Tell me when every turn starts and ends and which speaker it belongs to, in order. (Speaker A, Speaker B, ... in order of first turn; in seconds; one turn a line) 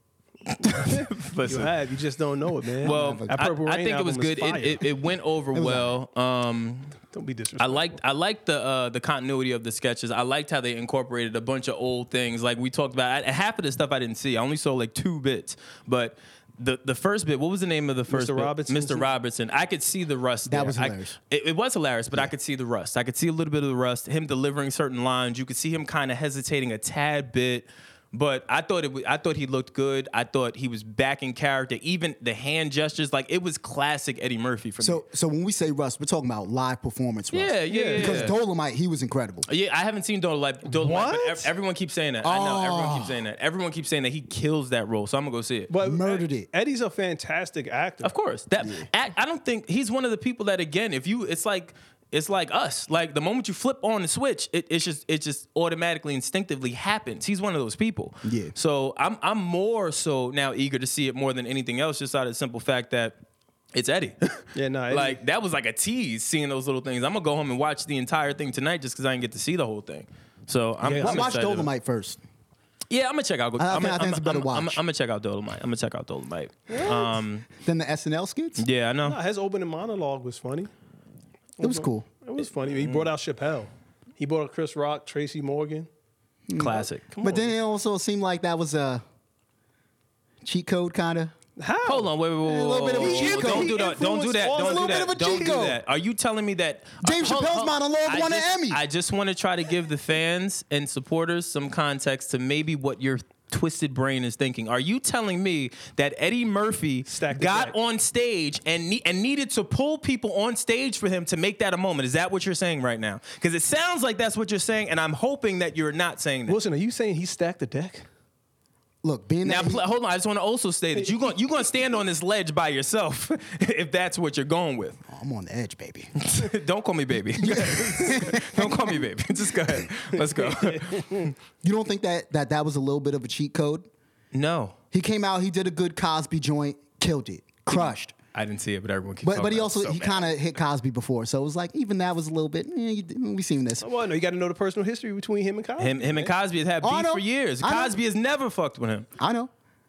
Speaker A: 0.5-1.7
Speaker B: 1.5-4.8
Speaker A: 2.8-7.0
Speaker C: 2.8-3.3
Speaker C: 5.5-5.9
Speaker B: 7.1-8.0
Speaker A: 7.6-35.0
Speaker B: 18.1-19.1
Speaker C: 20.5-21.1
Speaker C: 34.8-39.5
Speaker A: 37.3-38.4
Speaker B: 37.7-38.3
Speaker A: 39.5-45.7
Speaker B: 40.6-41.5
Speaker C: 42.2-43.2
Speaker B: 45.7-48.1
Speaker C: 45.8-46.5
Speaker A: 48.0-63.2
Speaker C: 48.6-48.9
Speaker C: 58.2-58.5
Speaker A: 63.7-71.7
Speaker B: 64.5-65.2
Speaker B: 70.8-71.3
Speaker C: 71.0-72.2
Speaker A: 72.9-77.5
Speaker C: 73.6-74.8
Speaker B: 76.7-77.1
Speaker C: 77.5-78.6
Speaker A: 78.6-79.2
Speaker B: 79.0-80.7
Speaker B: 81.6-85.9
Speaker C: 81.6-82.1
Speaker A: 82.7-83.1
Speaker C: 86.5-89.0
Speaker A: 86.5-87.1
Speaker B: 87.1-87.5
Speaker C: 90.4-91.3
Speaker B: 91.6-92.1
Speaker A: 91.8-116.6
Speaker C: 92.4-93.8
Speaker B: 93.0-95.7
Speaker C: 94.5-95.8
Speaker C: 97.0-98.8
Speaker B: 107.0-107.7
Speaker B: 116.5-118.1
Speaker C: 119.0-119.8
Speaker A: 119.4-125.0
Speaker C: 125.1-126.1
Speaker A: 126.2-131.3
Speaker C: 127.3-129.0
Speaker B: 130.2-131.1
Speaker C: 131.6-133.9
Speaker A: 134.3-134.8
Speaker C: 134.9-138.1
Speaker A: 137.7-140.3
Speaker C: 139.2-143.8
Speaker B: 143.8-146.3
Speaker A: 145.8-149.1
Speaker C: 146.8-148.0
Speaker C: 149.2-149.5